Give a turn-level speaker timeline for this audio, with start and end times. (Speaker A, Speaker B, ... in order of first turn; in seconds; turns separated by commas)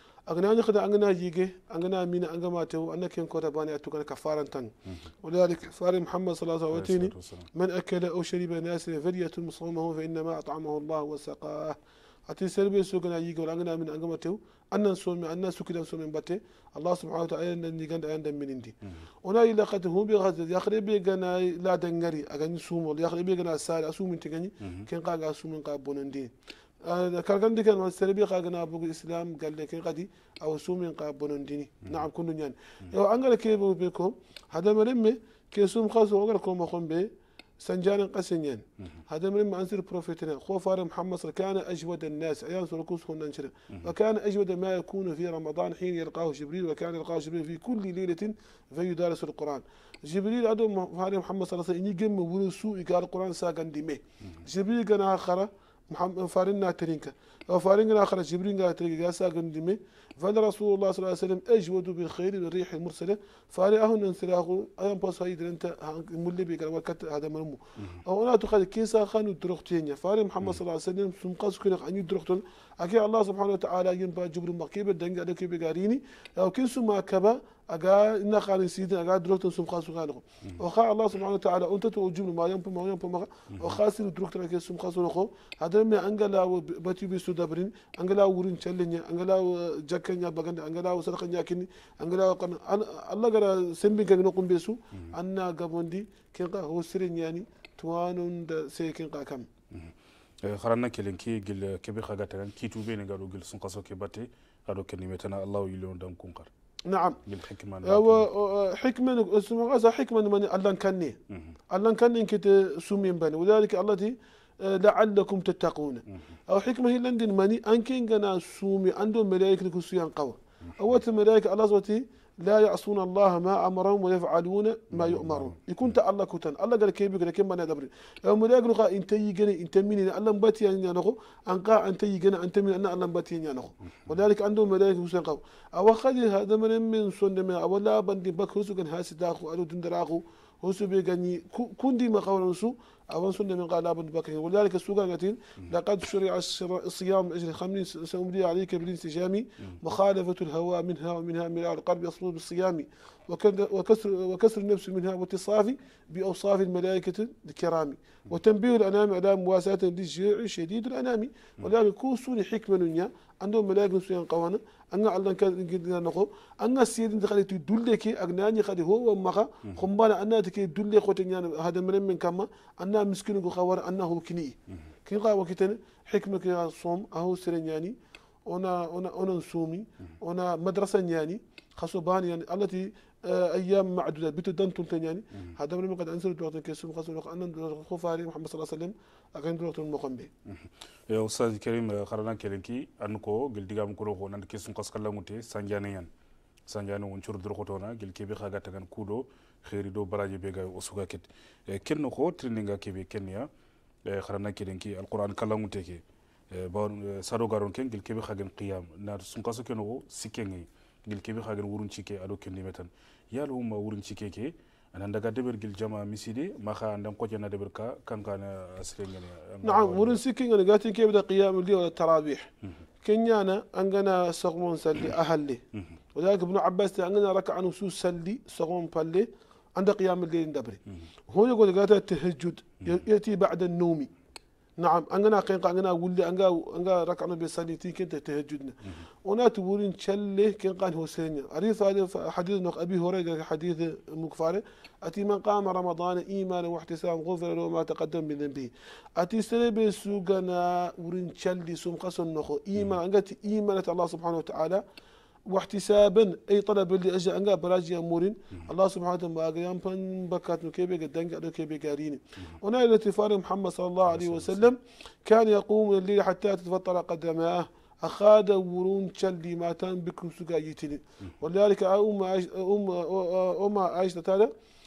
Speaker A: 0.3-11.8, Speaker B: 6.7-7.5, Speaker A: 12.3-26.3, Speaker A: 26.8-99.5, Speaker B: 99.7-106.5, Speaker A: 106.9-107.2, Speaker B: 107.2-108.3, Speaker A: 107.8-111.2, Speaker A: 111.7-177.9, Speaker B: 124.9-125.6, Speaker A: 178.5-190.3, Speaker B: 190.4-196.1, Speaker B: 196.7-203.5, Speaker B: 204.1-220.2, Speaker A: 219.6-222.5, Speaker A: 223.0-225.6, Speaker A: 226.1-234.1, Speaker A: 234.8-254.8, Speaker A: 255.5-274.5, Speaker B: 264.1-264.6